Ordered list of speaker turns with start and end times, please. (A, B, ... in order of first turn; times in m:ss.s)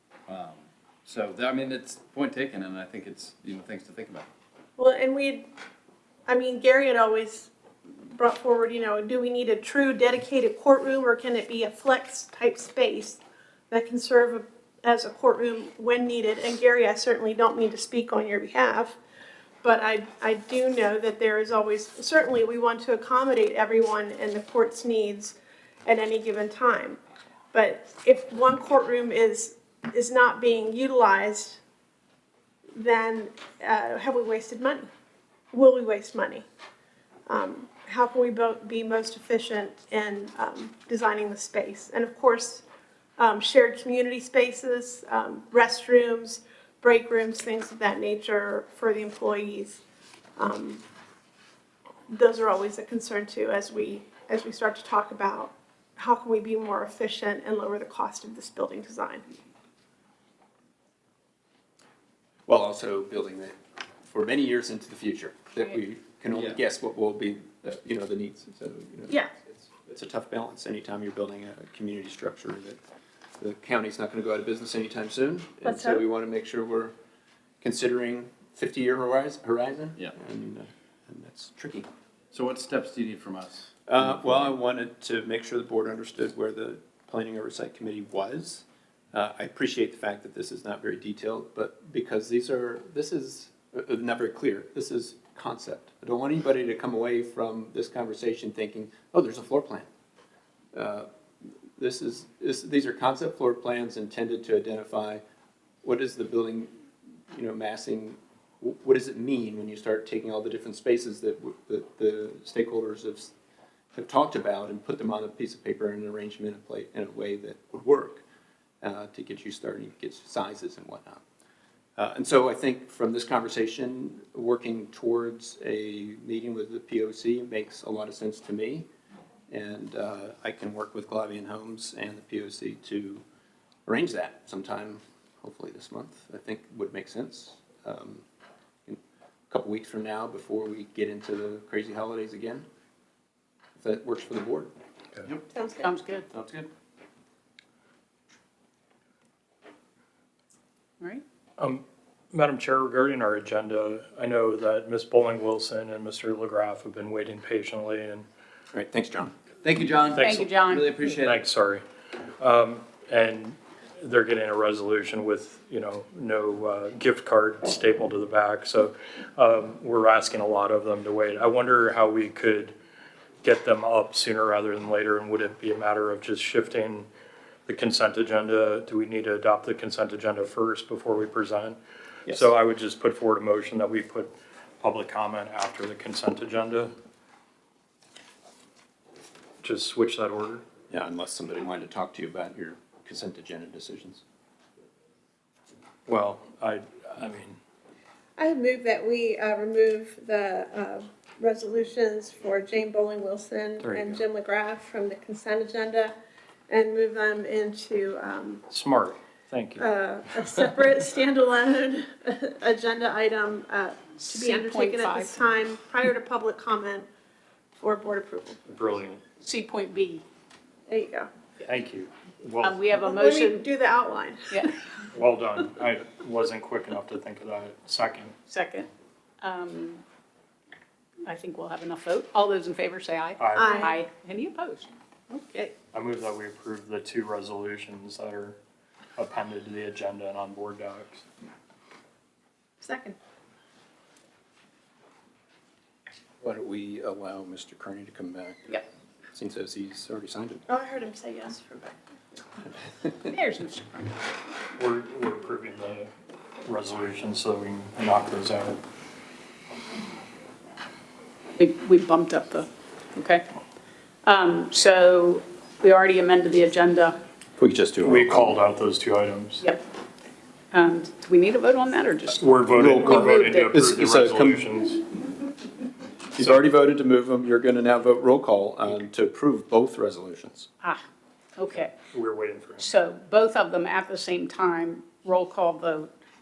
0:00.3-0:04.3 A
0:04.8-0:05.5 B
0:06.3-0:07.5 B
0:08.1-0:19.0 B
0:19.6-0:27.0 B
0:27.5-0:31.6 B
0:32.8-0:34.9 B
0:35.5-0:36.5 B
0:37.3-0:42.6 B
0:43.2-0:49.8 B
0:50.4-0:50.8 B
0:52.1-0:59.2 B
1:02.5-1:12.8 C
1:13.4-1:16.9 C
1:15.6-1:16.0 B
1:17.6-1:21.9 C
1:22.3-1:23.7 A
1:23.9-1:39.9 C
1:40.7-1:41.1 C
1:41.8-1:45.2 C
1:45.8-1:46.7 C
1:47.3-1:53.3 C
1:54.0-1:58.2 C
1:58.8-2:01.2 C
2:02.0-2:08.9 C
2:09.5-2:13.2 C
2:13.9-2:18.2 C
2:19.5-2:22.7 C
2:23.8-2:24.7 C
2:25.5-2:25.9 B
2:25.8-2:26.3 D
2:26.3-2:26.7 A
2:31.6-2:38.3 E
2:38.7-2:39.3 C
2:39.6-2:41.4 A
2:40.2-2:40.4 E
2:40.2-2:40.9 D
2:41.2-2:41.8 E
2:42.4-2:52.8 E
2:53.4-2:57.1 E
2:57.7-3:06.9 E
3:02.3-3:02.5 C
3:09.6-3:10.6 E
3:10.9-3:14.2 C
3:16.1-3:17.6 E
3:18.4-3:26.1 B
3:23.8-3:24.2 E
3:26.7-3:28.6 B
3:28.7-3:29.9 E
3:29.8-3:37.1 B
3:34.2-3:35.4 D
3:37.8-3:38.6 B
3:38.7-3:39.2 E
3:39.4-3:40.2 D
3:40.9-3:41.3 B
3:41.7-3:42.9 E
3:42.6-3:43.7 D
3:43.0-3:44.6 B
3:44.5-3:44.8 D
3:45.1-3:48.3 E
3:48.5-3:48.9 D
3:49.4-3:50.0 D
3:51.2-3:54.9 D
3:53.4-3:53.8 E
3:53.6-3:54.0 B
3:55.3-3:55.7 B
3:55.9-3:58.6 E
3:59.2-4:01.2 E
4:02.8-4:03.2 B
4:06.4-4:08.8 C
4:09.3-4:10.6 C
4:10.7-4:12.0 B
4:13.2-4:14.2 D
4:14.8-4:16.1 E
4:16.6-4:18.8 E
4:21.6-4:23.5 D
4:24.2-4:27.2 D
4:27.6-4:28.6 C
4:28.0-4:29.6 E
4:29.6-4:29.9 D
4:30.7-4:33.7 D
4:32.4-4:35.0 E
4:32.7-4:34.6 C
4:36.4-4:40.7 C
4:41.6-4:41.9 D
4:42.1-4:42.9 E
4:42.8-4:46.1 D